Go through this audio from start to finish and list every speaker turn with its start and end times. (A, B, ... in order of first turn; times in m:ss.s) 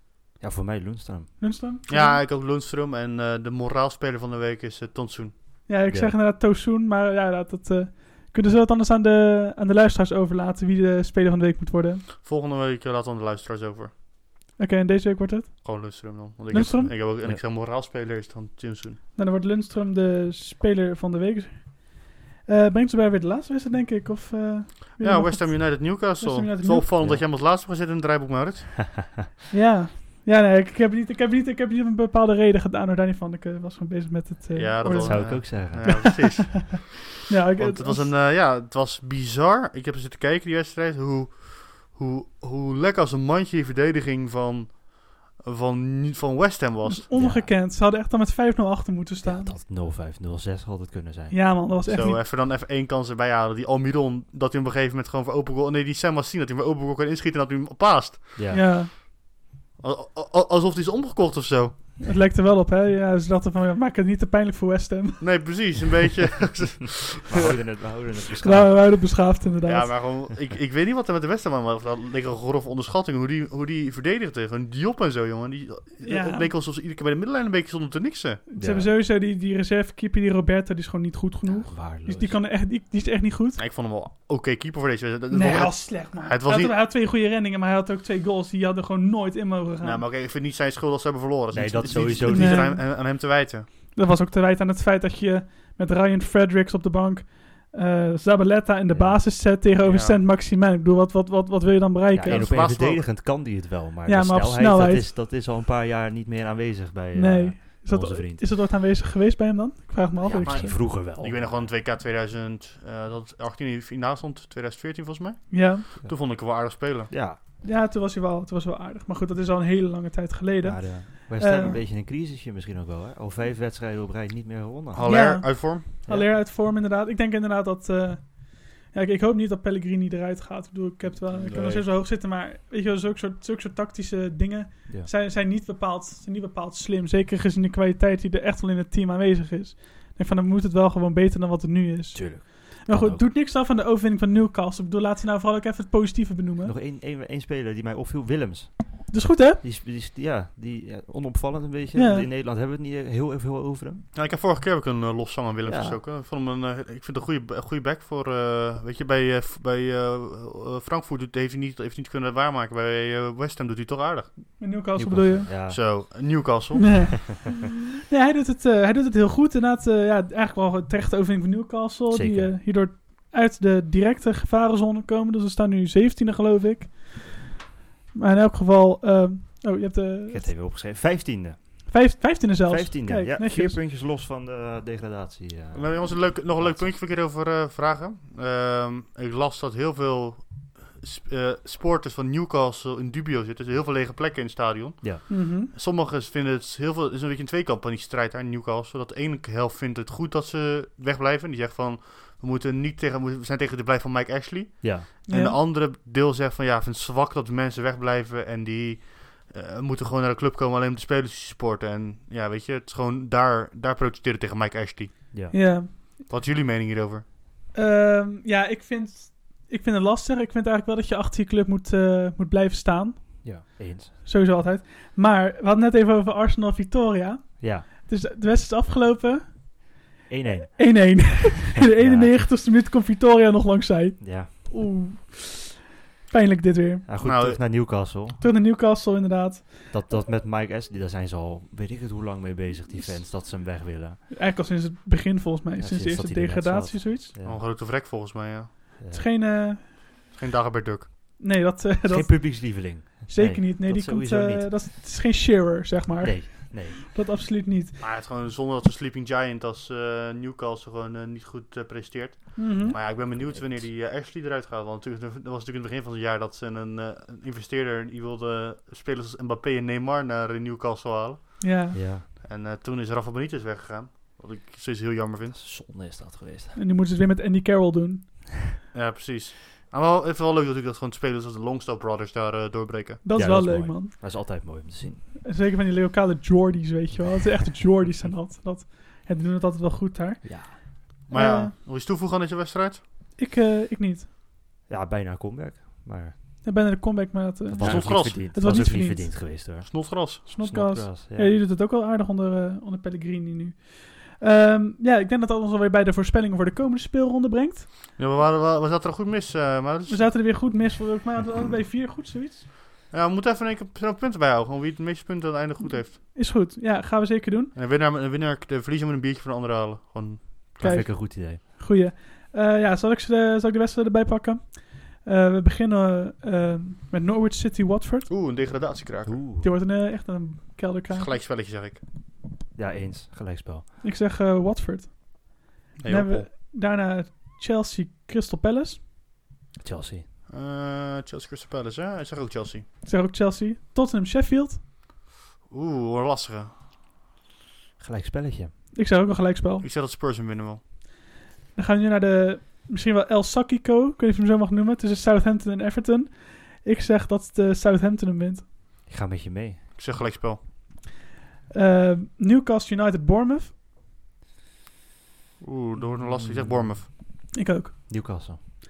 0:00.4-0:01.4 A
0:01.4-0:02.2 B
0:01.9-0:05.5 C
0:05.7-0:12.0 B
0:05.9-0:06.2 A
0:12.2-0:13.9 C
0:14.6-0:16.9 B
0:15.6-0:19.0 C
0:16.6-0:17.4 A
0:19.1-0:26.9 B
0:25.0-0:28.9 C
0:29.5-0:38.1 B
0:34.5-0:36.9 C
0:35.0-0:36.2 A
0:37.6-0:47.0 C
0:46.8-0:49.6 B
0:47.1-0:47.5 A
0:49.2-0:51.6 A
0:51.3-0:52.2 B
0:51.9-0:58.4 C
0:58.4-0:58.8 A
0:58.5-0:58.9 B
0:59.8-1:01.8 C
1:02.0-1:05.3 B
1:05.2-1:07.5 C
1:07.2-1:08.9 A
1:08.4-1:10.0 B
1:09.6-1:18.4 C
1:16.0-1:16.5 B
1:18.5-1:23.6 B
1:18.6-1:18.9 A
1:21.4-1:22.4 A
1:23.6-1:26.7 C
1:25.3-1:30.0 B
1:29.8-1:33.7 C
1:31.5-1:32.8 A
1:32.3-1:32.9 B
1:33.9-1:42.5 B
1:38.9-1:39.3 A
1:39.8-1:40.2 C
1:42.1-1:48.5 A
1:42.2-1:43.0 C
1:44.0-1:45.1 B
1:47.1-1:50.8 B
1:50.2-1:51.7 A
1:50.4-1:57.1 C
1:55.5-1:55.8 B
1:57.1-1:57.4 A
1:57.6-2:01.8 B
2:00.6-2:05.4 A
2:04.9-2:05.9 C
2:05.0-2:26.7 B
2:11.3-2:11.8 C
2:22.1-2:23.3 A
2:26.6-2:34.0 A
2:29.1-2:29.6 B
2:31.9-2:32.3 B
2:34.1-2:44.5 C
2:35.6-2:36.0 A
2:44.6-2:45.5 B
2:45.0-2:46.0 A
2:45.7-2:47.2 C
2:46.8-2:47.3 B
2:48.1-2:57.5 B
2:52.1-2:52.6 A
2:58.1-3:00.5 B
3:00.3-3:02.0 A
3:01.9-3:03.8 B
3:02.6-3:06.9 A
3:05.7-3:35.2 C
3:15.3-3:15.7 B
3:24.8-3:25.1 A
3:25.3-3:25.6 B
3:35.3-3:35.6 A
3:35.5-3:35.9 B
3:36.3-3:37.2 C
3:37.7-3:49.9 B
3:43.4-3:44.1 A
3:47.6-3:47.9 A
3:50.3-3:52.5 A
3:50.8-3:57.0 B
3:54.2-3:54.5 A
3:57.0-3:58.4 A
3:57.2-3:57.6 C
3:58.4-3:59.9 B
3:59.9-4:04.2 A
4:04.3-4:07.3 B
4:05.8-4:07.6 A
4:07.4-4:08.8 C
4:09.0-4:09.2 A
4:09.1-4:09.9 B
4:10.3-4:11.1 C
4:11.4-4:18.0 B
4:12.0-4:14.8 A
4:16.2-4:17.0 A
4:18.0-4:31.8 C
4:22.6-4:23.0 B
4:22.8-4:23.8 A
4:31.6-4:32.0 B
4:31.9-4:32.3 A
4:32.4-4:35.6 C
4:35.5-4:36.8 A
4:36.7-4:38.5 B
4:38.9-4:43.2 C
4:43.2-4:44.6 B
4:43.3-4:45.2 A
4:45.4-4:51.7 B
4:50.4-4:50.8 A
4:51.3-4:53.0 C
4:53.4-4:54.3 B
4:54.9-4:56.3 A
4:56.6-4:59.8 B
4:57.7-5:01.6 A
4:57.8-4:58.5 C
4:59.5-5:00.4 C
5:00.4-5:07.9 B
5:08.2-5:10.5 C
5:10.1-5:12.6 B
5:13.1-5:16.2 C
5:15.8-5:17.7 B
5:17.7-5:20.9 C
5:20.8-5:28.3 B
5:20.8-5:21.6 A
5:28.3-5:29.4 C
5:29.2-5:29.7 A
5:29.6-5:31.4 B
5:31.1-5:32.0 C
5:32.7-5:33.8 A
5:34.0-5:39.0 B
5:36.0-5:36.5 C
5:39.8-5:40.3 A
5:40.5-5:42.8 C
5:43.0-5:44.8 B
5:45.7-5:46.7 C
5:48.0-5:48.7 A
5:48.9-5:49.8 B
5:49.8-5:50.8 C
5:51.7-5:58.6 B
5:59.1-5:59.8 A
6:00.0-6:00.6 C
6:01.7-6:03.7 B
6:05.6-6:07.1 C
6:06.0-6:07.2 A
6:07.5-6:07.9 B
6:08.1-6:08.6 A